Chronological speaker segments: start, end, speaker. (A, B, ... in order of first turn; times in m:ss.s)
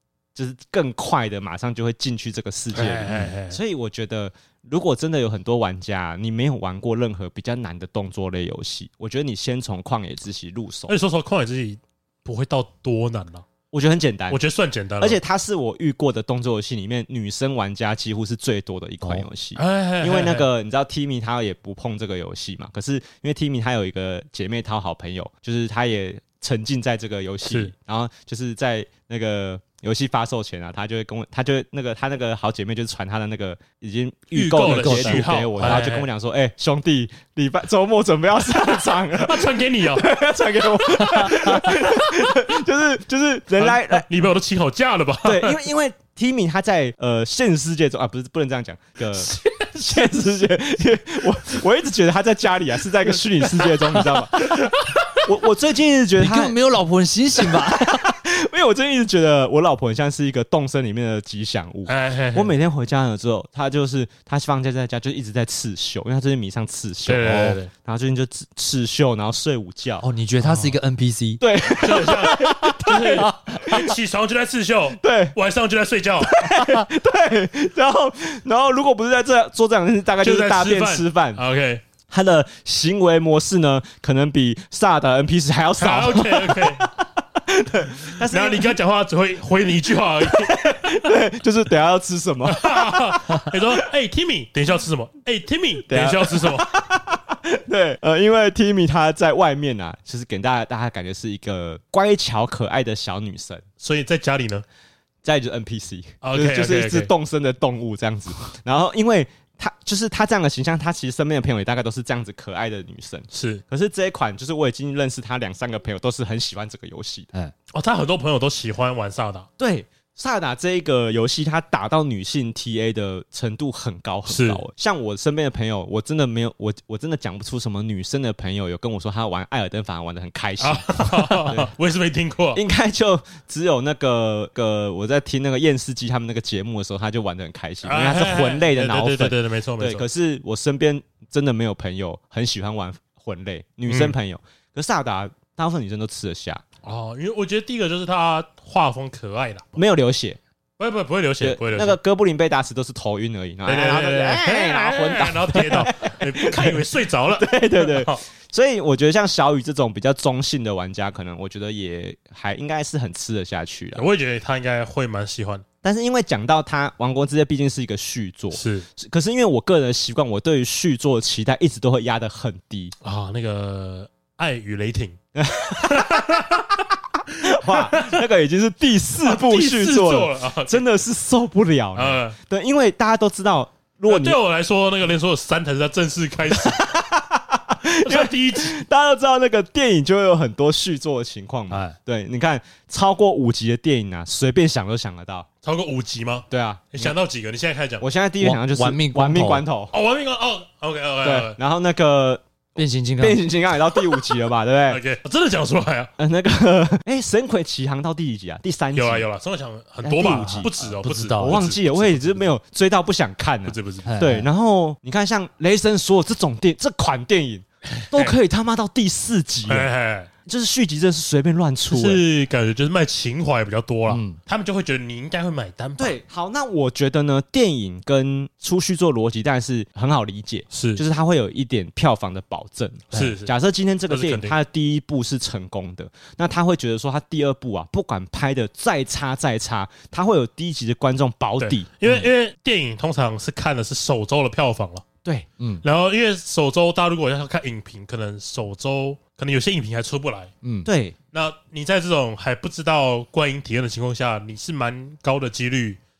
0:00.4-0:11.0 A
0:02.7-0:03.6 B
0:10.9-0:13.4 B
0:13.7-0:14.4 A
0:14.3-0:15.2 B
0:15.0-0:44.1 A
0:19.6-0:20.5 B
0:27.5-0:27.7 B
0:34.3-0:36.1 B
0:34.7-0:35.9 C
0:38.6-0:40.1 B
0:41.0-0:42.2 B
0:43.6-0:45.7 B
0:45.2-0:54.6 A
0:49.3-0:49.6 B
0:53.4-0:55.0 B
0:55.2-0:56.6 A
0:56.2-0:58.1 C
0:57.7-1:10.1 A
1:01.9-1:02.5 B
1:07.1-1:07.7 B
1:07.2-1:07.6 C
1:10.0-1:11.4 C
1:10.4-1:10.7 B
1:11.4-1:13.9 A
1:11.8-1:16.8 B
1:15.0-1:15.4 A
1:16.2-1:21.4 A
1:20.2-1:21.8 B
1:22.1-1:28.8 A
1:25.8-1:26.9 B
1:28.2-1:31.1 B
1:30.2-1:33.6 A
1:32.5-1:36.7 B
1:35.9-1:43.6 A
1:43.8-1:44.6 B
1:45.2-1:57.3 A
1:46.2-1:47.1 B
1:53.3-1:53.6 B
1:57.7-1:59.5 B
1:59.6-2:11.7 A
2:04.3-2:04.6 B
2:10.6-2:12.6 B
2:12.5-2:26.6 A
2:17.8-2:20.0 B
2:23.9-2:24.2 B
2:26.8-2:29.8 B
2:29.8-2:30.4 A
2:30.8-2:32.0 B
2:31.4-2:44.0 A
2:33.7-2:38.2 B
2:43.9-2:45.6 B
2:45.8-2:52.9 A
2:48.5-2:48.9 B
2:53.0-2:55.2 B
2:55.4-2:56.3 A
2:55.8-2:56.8 B
2:57.4-3:04.4 A
2:57.5-2:58.2 B
2:59.2-3:00.8 B
3:02.0-3:02.4 B
3:04.1-3:06.9 B
3:06.6-3:15.5 A
3:08.0-3:08.8 B
3:11.7-3:12.0 C
3:15.6-3:18.0 B
3:16.5-3:17.2 A
3:18.0-3:20.0 A
3:18.4-3:19.6 C
3:19.9-3:21.6 B
3:21.2-3:22.4 A
3:22.8-3:23.4 C
3:23.2-3:25.0 A
3:24.9-3:26.1 B
3:26.2-3:29.3 A
3:29.0-3:32.5 B
3:30.0-3:30.7 A
3:30.2-3:31.6 C
3:31.4-3:39.9 A
3:33.7-3:34.1 B
3:34.0-3:34.5 C
3:37.9-3:38.4 B
3:39.7-3:40.3 B
3:40.5-3:42.2 A
3:41.9-3:46.2 B
3:44.1-3:44.4 C
3:46.0-4:01.9 A
3:50.7-3:51.0 B
3:53.1-3:53.5 B
3:54.1-3:54.5 B
4:01.6-4:05.0 B
4:05.6-4:05.8 C
4:05.8-4:10.5 B
4:10.6-4:10.9 C
4:10.8-4:11.2 A
4:11.3-4:16.0 B